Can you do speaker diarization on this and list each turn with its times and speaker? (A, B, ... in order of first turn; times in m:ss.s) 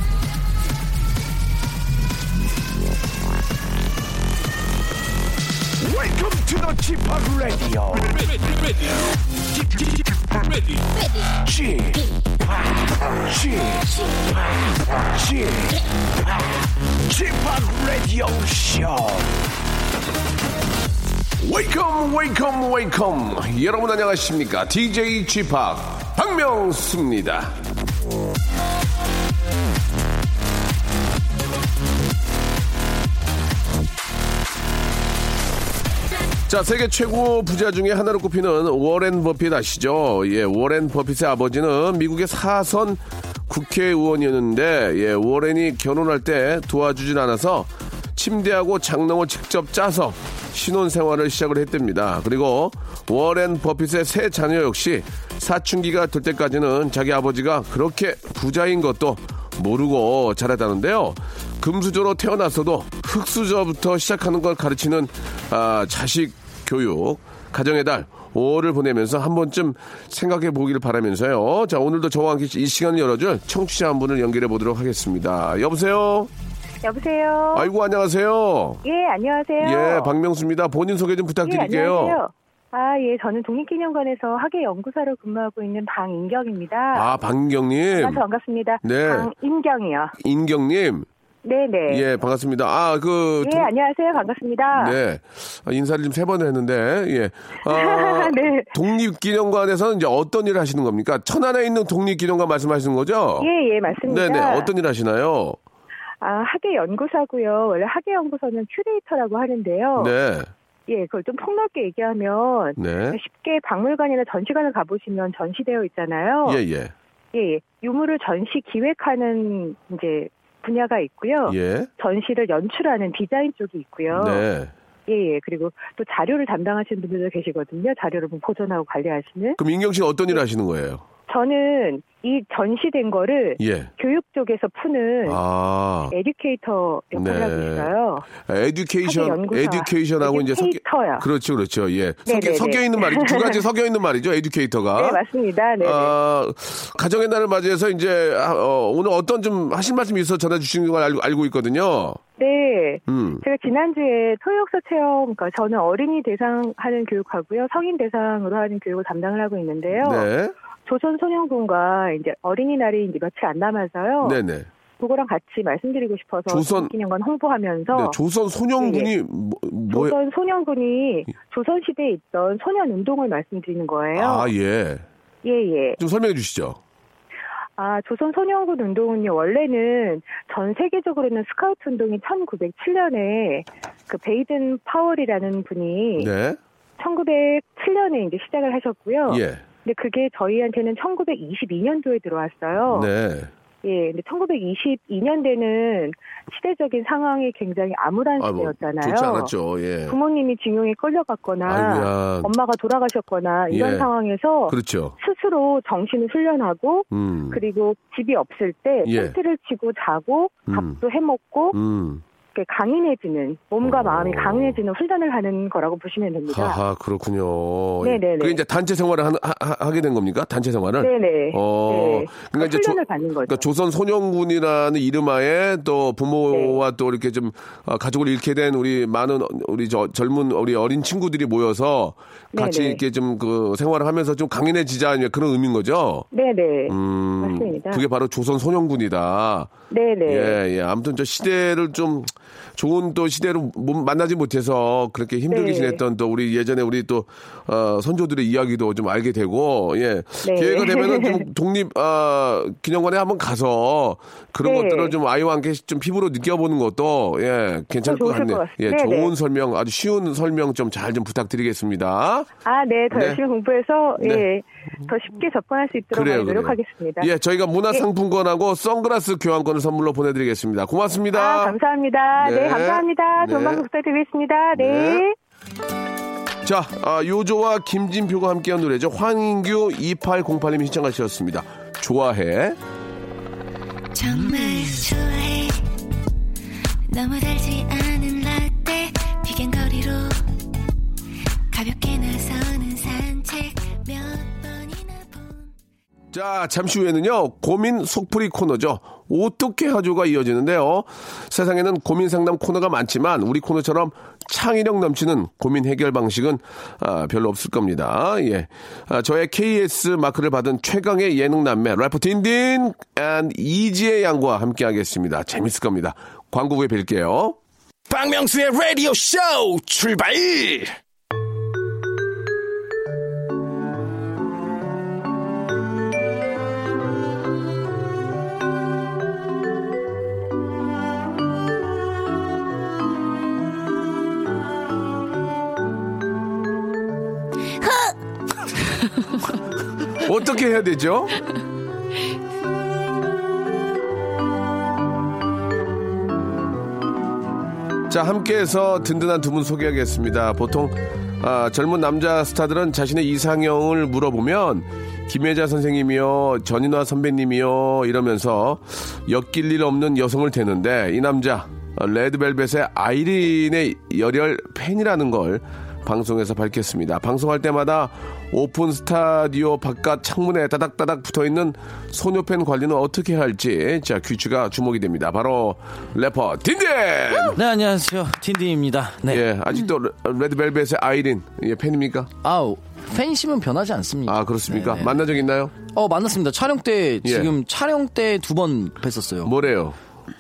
0:05.8-0:07.9 A
0:07.0-0:07.9 B
0:11.4-0:12.0 A
0:13.2-0:14.4 A
0:15.1-0:15.8 A
0:17.0-0:19.3 A
0:21.4-0:27.6 A
0:36.5-1:16.3 A
1:16.8-1:17.7 C
1:17.5-1:18.8 A
1:18.8-1:20.1 C
1:19.6-1:22.2 A
1:21.4-1:27.1 C
1:26.9-1:28.2 A
1:27.9-1:30.1 C
1:28.8-1:29.3 A
1:30.2-1:31.1 A
1:31.4-1:32.0 C
1:31.9-1:33.7 A
1:33.4-1:35.0 C
1:34.7-1:43.5 A
1:37.7-1:38.7 C
1:43.4-1:44.7 C
1:44.0-1:45.6 A
1:46.2-1:50.1 C
1:50.0-1:50.5 A
1:50.9-1:56.6 C
1:52.8-1:53.2 A
1:56.4-1:56.9 A
1:57.3-2:04.4 C
2:01.4-2:01.9 A
2:04.1-2:04.7 A
2:05.1-2:09.6 C
2:09.6-2:11.0 A
2:11.3-2:15.4 C
2:13.6-2:13.9 A
2:15.2-2:16.1 A
2:16.1-2:18.3 C
2:17.1-2:25.2 A
2:19.0-2:21.2 C
2:22.3-2:23.6 C
2:25.0-2:26.1 C
2:25.8-2:32.2 A
2:32.4-2:40.3 C
2:33.1-2:33.4 A
2:40.0-2:40.5 A
2:40.8-2:44.4 C
2:44.2-2:44.7 A
2:45.0-2:48.2 C
2:46.5-2:46.9 A
2:47.9-2:50.2 A
2:48.8-2:49.1 C
2:49.9-2:54.5 C
2:54.2-2:55.0 A
2:55.4-2:56.0 C
2:56.0-2:56.8 A
2:57.8-3:06.3 C
3:06.2-3:06.6 A
3:07.0-3:13.1 C
3:09.3-3:09.6 A
3:12.9-3:13.5 A
3:13.8-3:19.5 C
3:18.4-3:20.2 A
3:20.1-3:31.8 C
3:21.6-3:22.5 A
3:23.7-3:24.1 A
3:24.7-3:25.1 A
3:27.1-3:27.6 A
3:29.0-3:29.3 A
3:30.7-3:31.0 A
3:31.7-3:32.2 A
3:32.5-3:36.8 C
3:33.8-3:34.8 A
3:36.5-3:56.3 A
3:38.0-3:38.6 C
3:41.0-3:43.6 C
3:46.5-3:46.8 C
3:52.5-3:53.0 C
3:56.3-3:58.0 C
3:56.9-3:59.7 A
3:59.9-4:00.6 C
4:00.2-4:22.5 A
4:05.5-4:06.0 C
4:10.4-4:11.4 C
4:14.6-4:15.1 C
4:18.0-4:19.3 C
4:22.6-4:27.3 C
4:23.1-4:23.4 A
4:24.2-4:24.5 A
4:26.1-4:31.8 A
4:31.3-4:35.3 C
4:32.4-4:33.8 A
4:34.7-4:35.2 A
4:36.6-4:42.8 A
4:44.1-4:45.9 D
4:47.1-4:50.4 D
4:51.7-4:55.7 D
4:56.3-5:17.6 A
5:18.1-5:20.9 B
5:40.1-5:41.4 A
5:48.1-6:17.6 A
6:17.5-6:19.4 E
6:19.2-6:22.3 A
6:22.4-6:25.2 E
6:24.3-6:25.7 A
6:25.8-6:29.5 E
6:27.2-6:27.5 A
6:29.4-6:30.0 A